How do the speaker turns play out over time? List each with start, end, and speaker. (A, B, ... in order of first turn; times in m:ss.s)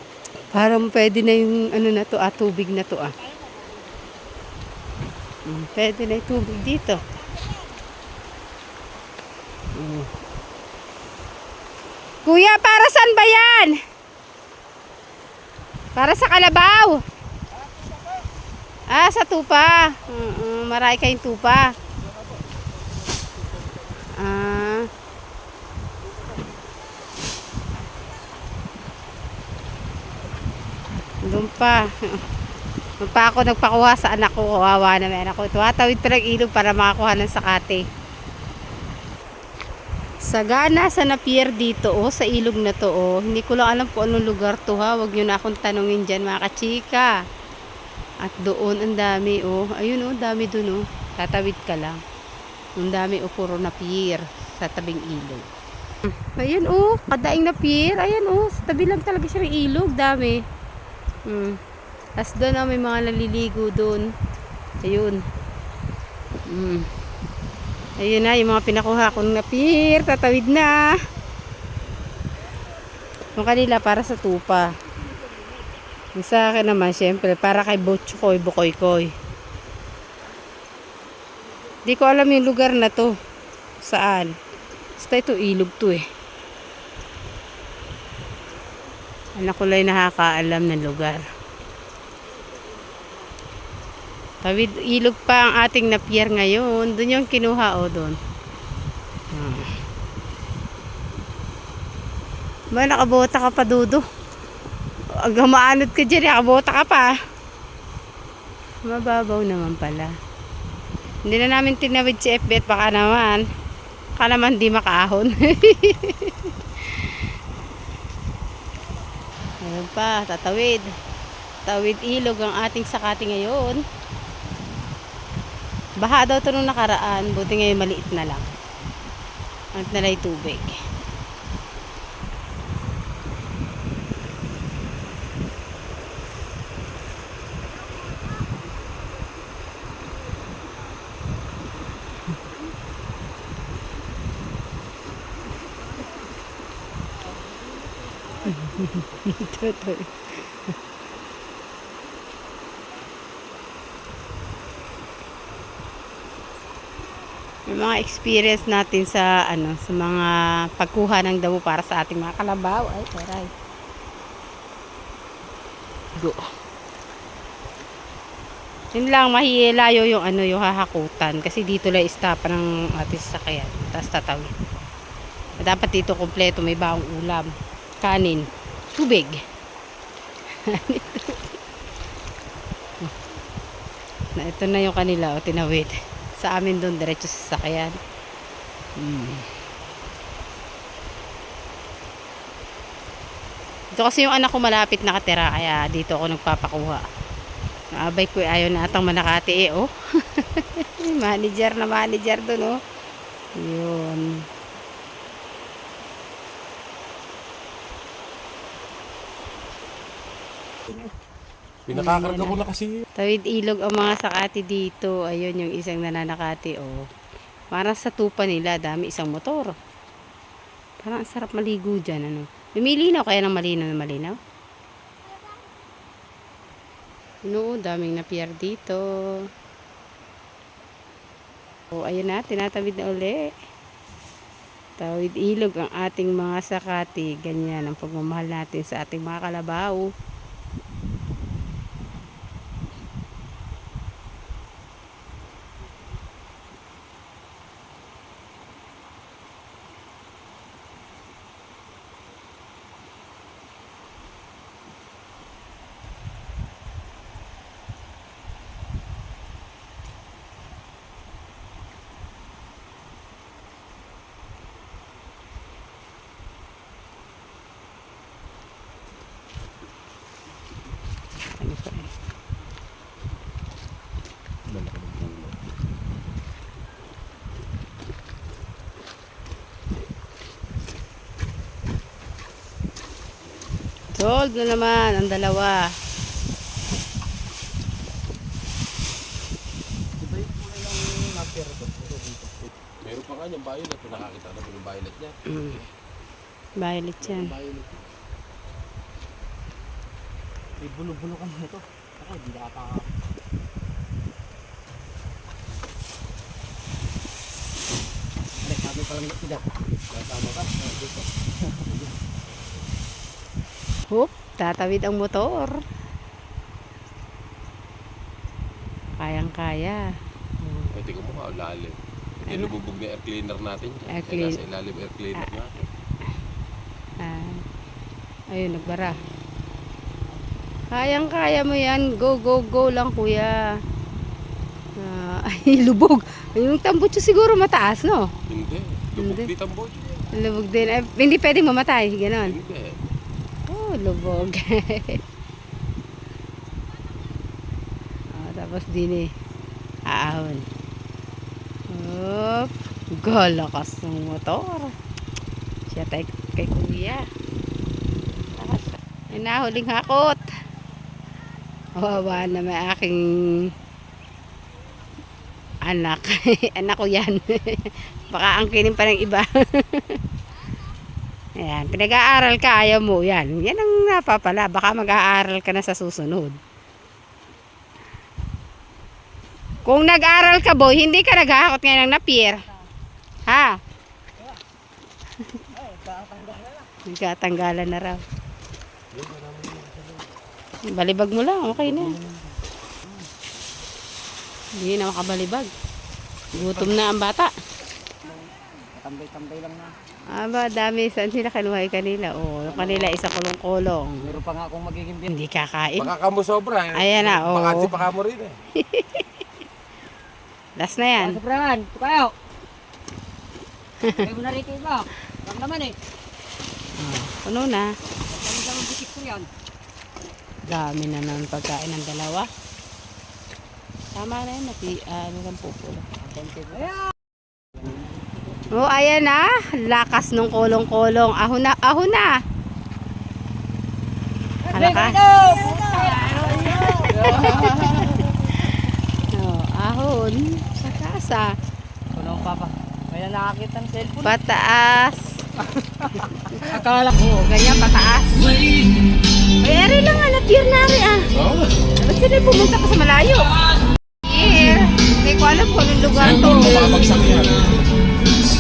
0:00.5-0:03.1 A
0:05.5-0:07.0 A
0:09.8-0:10.1 A
0:12.2-0:13.8 A
0:16.0-0:17.0 A
0:18.9-0:21.7 A
0:24.2-0:24.9 A
0:31.3-0:32.2 A
0:33.0-0:37.8 A
0:40.3-0:47.1 A
0:48.2-0:52.0 A
0:52.8-0:55.5 A
0:56.3-1:00.4 A
1:01.3-1:01.6 A
1:02.2-1:04.1 A
1:04.8-1:05.2 A
1:06.5-1:06.8 A
1:08.0-1:11.0 A
1:13.4-1:14.7 A
1:16.2-1:19.1 A
1:21.8-1:23.1 A
1:23.8-1:24.3 A
1:25.0-1:26.0 A
1:29.4-1:31.2 A
1:34.4-1:38.2 A
1:39.3-1:39.7 A
1:42.7-1:44.0 A
1:45.2-1:47.1 A
1:48.8-1:50.1 A
1:51.3-1:53.4 A
1:54.2-1:57.2 A
1:59.6-2:00.9 A
2:01.7-2:03.8 A
2:06.0-2:08.5 A
2:09.8-2:10.8 A
2:28.4-2:30.7 A
2:37.7-2:43.5 A
2:49.0-2:54.5 A
2:55.6-2:59.4 A
3:00.6-3:01.5 A
3:04.4-3:08.0 A
3:09.0-3:09.4 A
3:13.9-3:17.0 A
3:17.9-3:22.8 A
3:23.6-3:24.4 A
3:31.9-3:33.1 B
3:31.9-3:32.6 A
3:33.2-3:37.0 A
3:37.7-3:39.7 A
3:41.0-3:44.4 A
3:47.4-3:49.4 A
3:51.9-3:53.4 A
3:55.0-4:00.1 A
4:31.6-4:32.1 A
4:34.7-4:35.6 B
4:44.2-4:45.9 A
4:50.2-4:52.5 C
4:53.0-4:55.8 B
4:55.5-4:55.8 A
4:56.8-4:57.5 A
4:57.2-4:58.0 B
5:00.8-5:03.1 C
5:08.6-5:09.6 C
5:10.1-5:11.2 B
5:14.1-5:15.8 A
5:19.2-5:20.0 A
5:20.6-5:20.9 A
5:20.9-5:25.7 B
5:24.1-5:24.6 A
5:27.2-5:27.6 A
5:28.5-5:29.2 A
5:30.9-5:33.6 A
5:35.0-5:38.3 A
5:38.5-5:40.3 B
5:39.2-5:39.5 A
5:40.3-5:42.6 A
5:42.4-5:43.0 B
5:43.7-5:45.2 A
5:48.4-5:49.3 A
5:50.1-5:50.6 A
5:51.9-5:54.9 A
5:55.9-5:57.2 A
5:58.6-6:00.5 A
6:02.0-6:03.7 A
6:05.8-6:10.2 A
6:11.6-6:16.6 A
6:19.8-6:22.7 A
6:23.5-6:23.8 A
6:25.7-6:26.8 C
6:27.1-6:28.2 A
6:29.1-6:30.3 B
6:30.9-6:32.2 A
6:31.9-6:32.4 C
6:34.8-6:35.7 A
6:36.5-6:37.5 A
6:36.6-6:36.9 B
6:38.9-6:40.0 C
6:40.3-6:44.4 A
6:42.7-6:43.2 C
6:44.2-6:45.3 C
6:45.3-6:46.1 A
6:46.0-6:48.6 B
6:47.0-6:48.0 A
6:48.8-6:49.4 A
6:50.8-6:51.4 A
6:51.1-6:52.3 C
6:54.1-6:56.0 C
6:57.0-6:57.9 A
6:58.3-6:59.5 C
7:00.7-7:02.5 A
7:04.2-7:06.0 A
7:06.2-7:07.0 C
7:07.8-7:08.3 C
7:08.7-7:12.3 A
7:14.7-7:18.3 C
7:14.7-7:21.5 A
7:22.2-7:24.4 C
7:24.2-7:25.3 A
7:26.0-7:27.3 C
7:26.4-7:26.6 A
7:27.1-7:28.6 A
7:29.6-7:31.3 A
7:31.3-7:31.7 B
7:32.0-7:33.5 A
7:34.2-7:37.0 A
7:36.2-7:37.7 B